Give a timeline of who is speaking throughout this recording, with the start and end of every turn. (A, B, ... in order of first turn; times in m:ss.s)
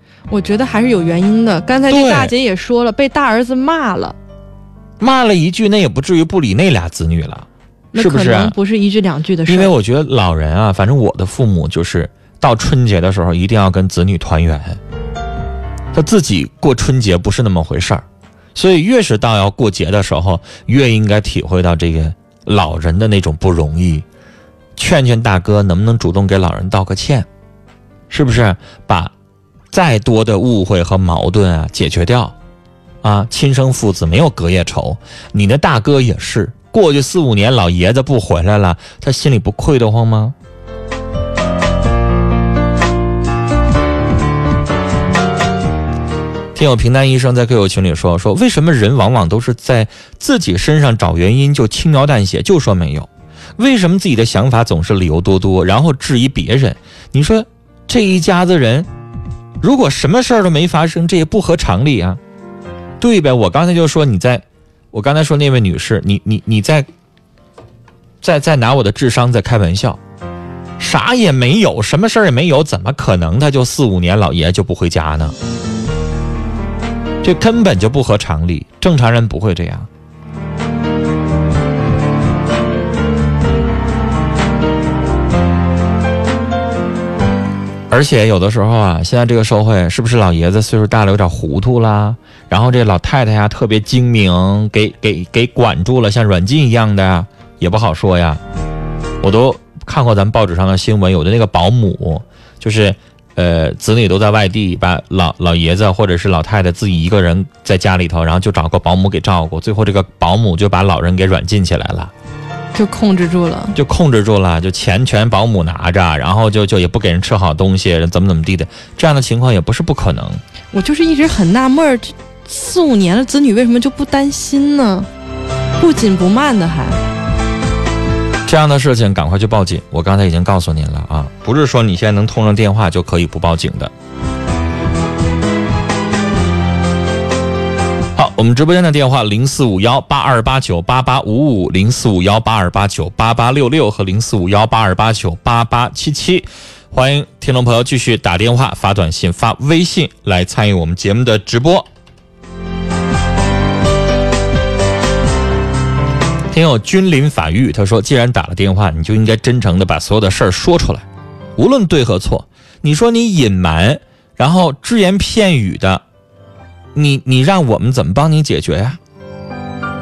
0:00.3-0:04.2 A
0:01.9-0:02.3 B
0:05.0-0:08.6 B
0:07.9-0:09.7 A
0:09.5-0:14.8 B
0:15.9-0:18.0 B
0:18.6-0:24.0 B
0:24.8-0:27.3 B
0:28.1-0:29.1 B
0:29.7-0:32.4 B
0:33.0-0:40.3 B
0:46.5-0:58.9 B
0:59.6-1:02.2 B
1:03.0-1:06.9 B
1:08.2-1:10.0 B
1:10.8-1:15.4 B
1:17.2-1:19.9 B
1:27.9-1:38.4 B
1:39.2-1:52.1 B
1:52.7-1:53.8 A
1:53.8-2:00.4 B
2:00.7-2:05.1 A
2:05.8-2:07.0 A
2:08.4-2:13.9 B
2:18.2-2:31.9 B
2:36.5-2:46.0 B
2:46.9-2:49.0 B